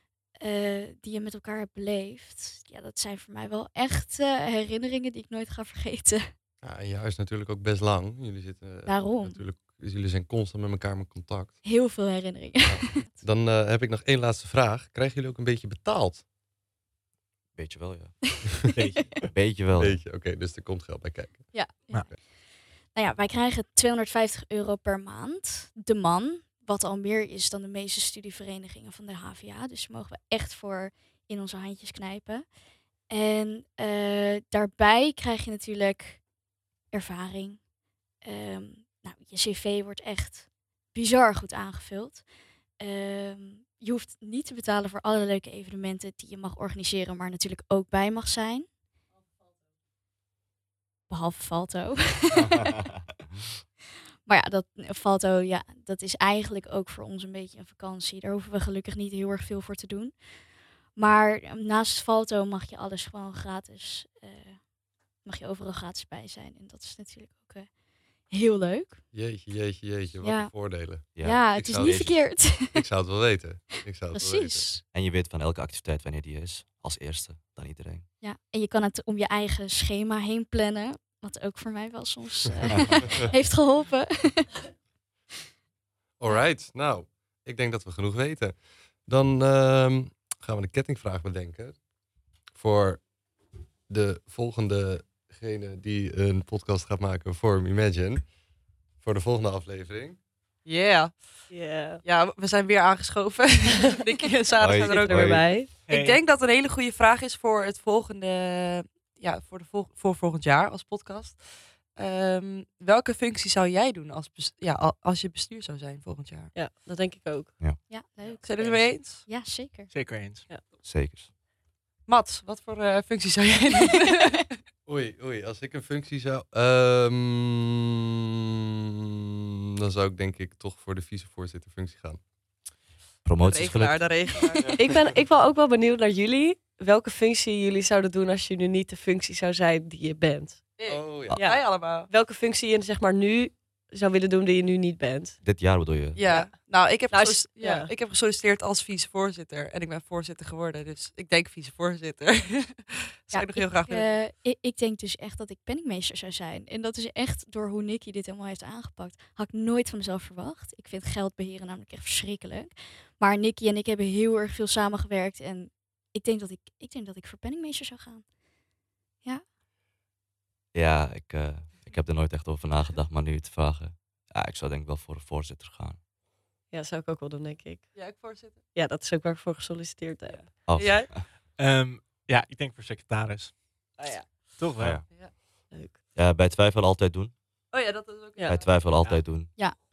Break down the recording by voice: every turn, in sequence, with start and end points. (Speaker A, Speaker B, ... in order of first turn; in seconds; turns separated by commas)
Speaker A: 0.4-6.3, Speaker B: 6.6-11.6, Speaker A: 8.8-9.4, Speaker A: 11.6-13.2, Speaker B: 12.6-16.2, Speaker C: 17.5-18.5, Speaker D: 18.7-19.1, Speaker C: 19.2-20.0, Speaker B: 19.7-22.2, Speaker A: 21.5-36.3, Speaker A: 36.9-48.7, Speaker A: 51.1-52.8, Speaker A: 54.2-69.0, Speaker B: 69.1-74.7, Speaker A: 70.2-72.8, Speaker C: 71.2-72.2, Speaker A: 73.7-74.8, Speaker C: 74.8-78.1, Speaker A: 78.2-84.6, Speaker B: 86.2-91.9, Speaker B: 92.5-93.2, Speaker B: 93.9-98.4, Speaker B: 99.0-100.2, Speaker E: 100.6-116.5, Speaker F: 101.5-102.0, Speaker C: 104.6-105.6, Speaker F: 104.9-105.7, Speaker D: 105.8-106.2, Speaker F: 116.5-117.5, Speaker A: 117.9-119.9, Speaker D: 118.2-118.8, Speaker E: 118.4-119.3, Speaker D: 119.9-120.5, Speaker C: 120.8-121.3, Speaker E: 122.0-124.4, Speaker B: 124.8-127.8, Speaker B: 129.8-132.2, Speaker C: 133.2-134.4, Speaker E: 133.4-135.1, Speaker F: 134.8-145.4, Speaker E: 140.8-142.1, Speaker B: 140.9-141.4, Speaker C: 145.4-146.2, Speaker E: 146.2-154.1, Speaker F: 146.3-146.5, Speaker F: 147.1-147.9, Speaker A: 153.3-168.6, Speaker C: 170.7-176.0, Speaker F: 176.7-178.2, Speaker E: 177.9-178.6, Speaker F: 178.7-180.4, Speaker E: 180.2-181.1, Speaker C: 180.7-181.3, Speaker D: 181.3-184.0, Speaker F: 184.0-184.3, Speaker D: 184.6-185.1, Speaker C: 184.8-185.1, Speaker F: 185.7-186.0, Speaker C: 186.1-187.7, Speaker E: 187.7-189.0, Speaker C: 188.4-189.6